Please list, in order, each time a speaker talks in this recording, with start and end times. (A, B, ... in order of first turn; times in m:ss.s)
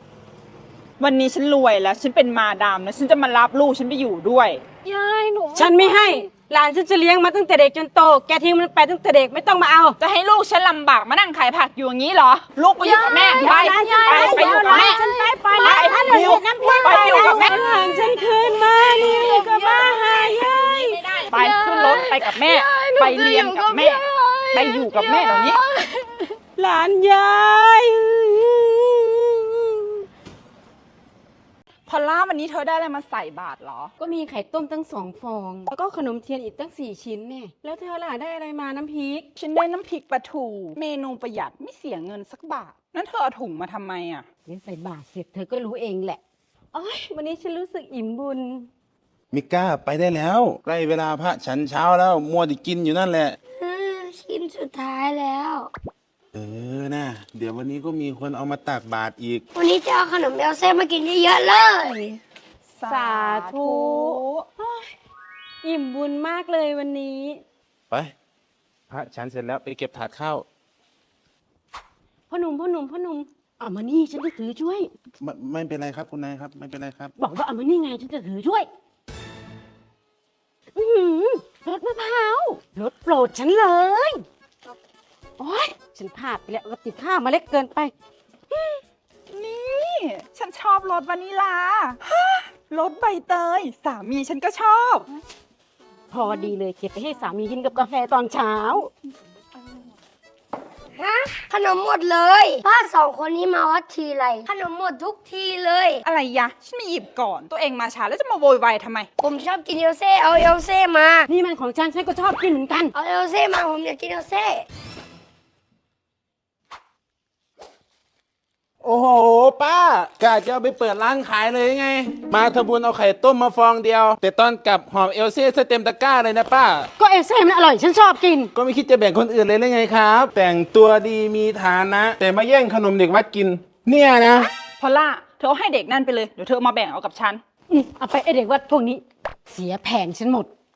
0:01.0-0:04.6 A
0:04.8-0:06.2 B
0:05.5-0:10.0 C
0:10.0-0:15.0 A
0:12.8-0:15.4 B
0:12.8-0:21.2 C
0:15.6-0:17.8 A
0:17.9-0:20.0 B
0:21.2-0:26.4 B
0:21.3-0:25.6 A
0:26.6-0:29.8 C
0:31.9-0:33.9 A
0:34.0-0:39.2 C
0:39.4-0:44.2 A
0:44.5-0:46.2 C
0:46.7-0:48.7 C
0:49.3-0:53.4 D
0:53.5-0:55.7 E
0:56.3-0:59.4 D
0:59.5-1:02.2 E
1:02.8-1:04.9 C
1:02.9-1:04.3 A
1:05.6-1:07.4 C
1:08.9-1:10.4 D
1:12.3-1:14.9 C
1:15.2-1:17.1 D
1:17.2-1:18.7 C
1:20.8-1:24.2 C
1:25.4-1:27.9 C
1:28.5-1:28.8 C
1:29.3-1:35.1 A
1:36.1-1:38.9 C
1:41.0-1:46.0 E
1:46.1-1:49.1 A
1:49.2-1:51.3 E
1:51.3-1:52.9 C
1:52.9-1:54.6 E
1:58.8-2:06.9 D
2:07.0-2:08.5 C
2:08.5-2:14.5 D
2:14.8-2:17.4 A
2:17.7-2:20.5 C